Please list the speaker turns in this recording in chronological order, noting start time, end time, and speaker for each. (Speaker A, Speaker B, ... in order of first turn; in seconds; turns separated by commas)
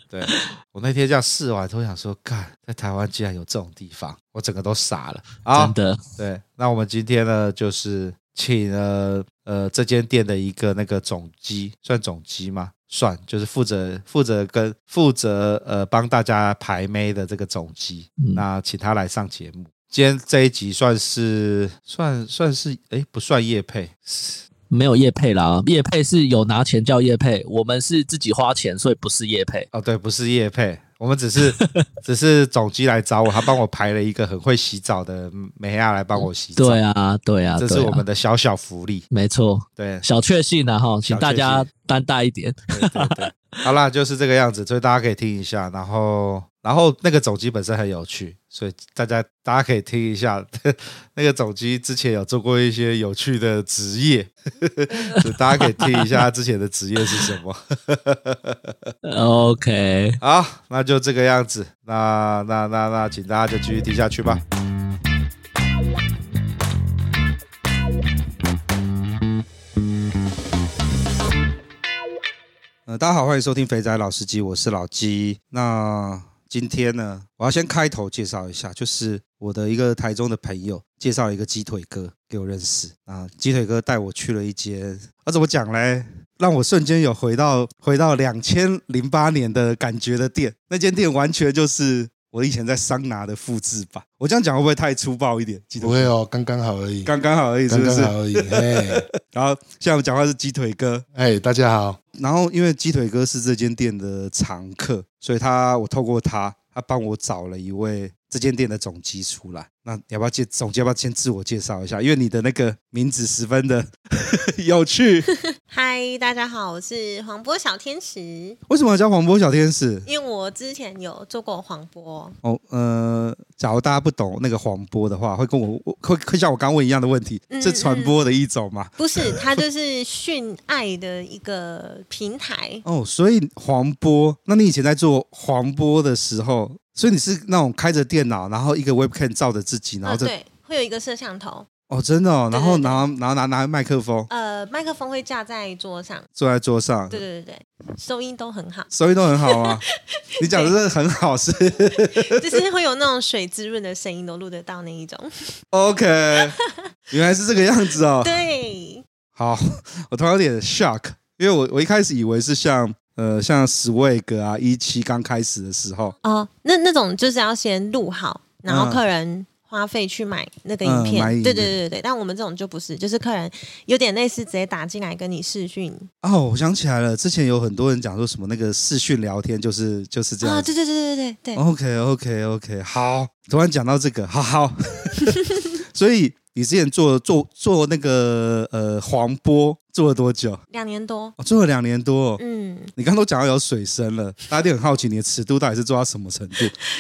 Speaker A: 0.1-24.4, Speaker B: 5.5-6.0, Speaker B: 18.2-18.4, Speaker B: 24.7-29.7, Speaker A: 29.7-36.8, Speaker B: 31.5-31.8, Speaker B: 36.1-38.0, Speaker A: 37.6-39.0, Speaker B: 39.1-43.4, Speaker A: 39.8-40.0, Speaker A: 41.0-41.7, Speaker A: 42.7-58.9, Speaker B: 55.0-56.1, Speaker B: 59.0-60.2, Speaker A: 60.2-64.4, Speaker A: 72.9-96.1, Speaker C: 95.8-97.1, Speaker A: 97.0-101.0, Speaker C: 97.7-99.1, Speaker C: 101.1-102.0, Speaker A: 102.1-115.3, Speaker D: 115.3-118.6, Speaker A: 118.7-120.1, Speaker D: 120.0-122.3, Speaker A: 122.4-129.6, Speaker D: 127.5-128.1, Speaker D: 129.0-132.8, Speaker A: 132.8-140.3, Speaker D: 140.0-141.7, Speaker A: 141.9-144.3, Speaker D: 142.5-143.0, Speaker D: 144.3-146.3, Speaker A: 146.4-147.2, Speaker D: 147.1-150.7, Speaker A: 148.9-149.8, Speaker A: 150.4-152.6, Speaker D: 152.2-155.3, Speaker A: 155.7-156.6, Speaker D: 156.5-156.7, Speaker A: 157.1-158.4, Speaker D: 158.2-159.1, Speaker A: 159.3-166.1, Speaker D: 166.2-176.1, Speaker A: 168.7-169.0, Speaker A: 170.8-171.8, Speaker A: 176.2-180.7, Speaker D: 180.4-181.6, Speaker A: 181.6-190.6, Speaker D: 190.7-191.3, Speaker A: 191.4-192.4, Speaker D: 192.4-192.9, Speaker A: 192.9-196.7